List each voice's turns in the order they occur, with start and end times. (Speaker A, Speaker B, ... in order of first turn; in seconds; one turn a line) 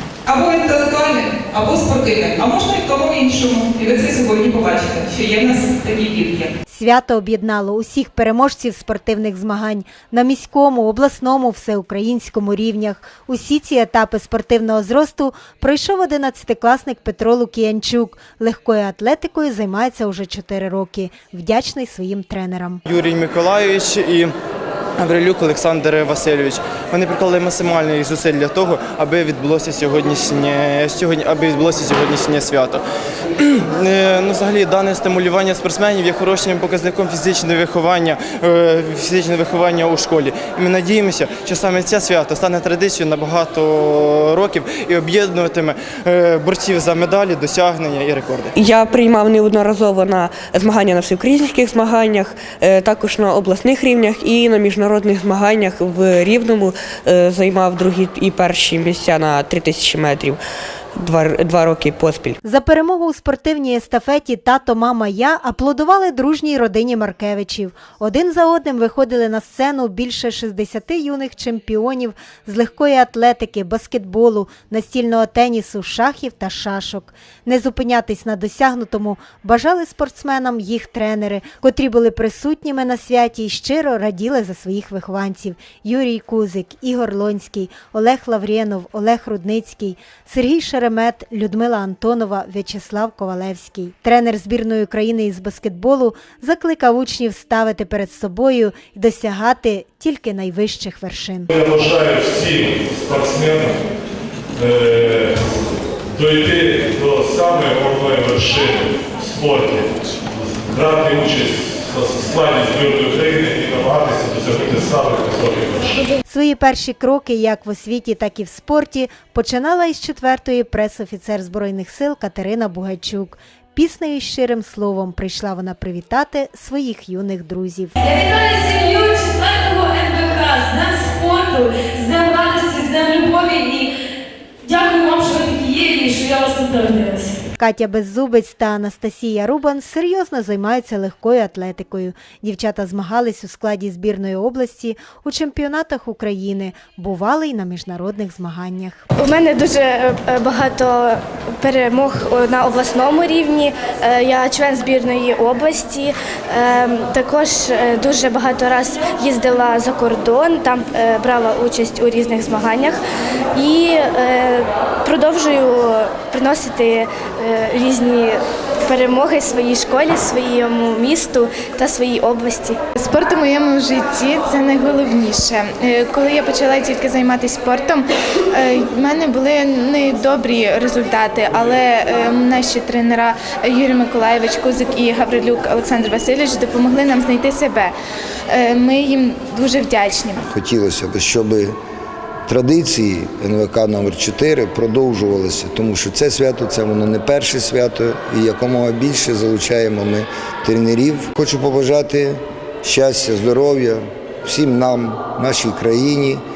Speaker A: 0.3-6.5
Speaker B: 6.7-22.8
Speaker C: 22.9-24.3
Speaker C: 25.0-32.8
Speaker C: 33.4-48.5
Speaker D: 48.6-60.4
Speaker D: 61.0-62.4
Speaker B: 62.5-101.5
Speaker E: 101.5-103.8
Speaker E: 104.6-105.5
Speaker E: 106.1-116.1
Speaker B: 116.2-127.9
Speaker F: 128.0-133.9
Speaker F: 134.7-137.3
Speaker B: 137.6-149.1
Speaker G: 149.2-163.0
Speaker G: 163.6-172.8
Speaker H: 173.0-187.9
Speaker H: 188.5-190.4
Speaker I: 190.5-191.8
Speaker I: 192.5-206.4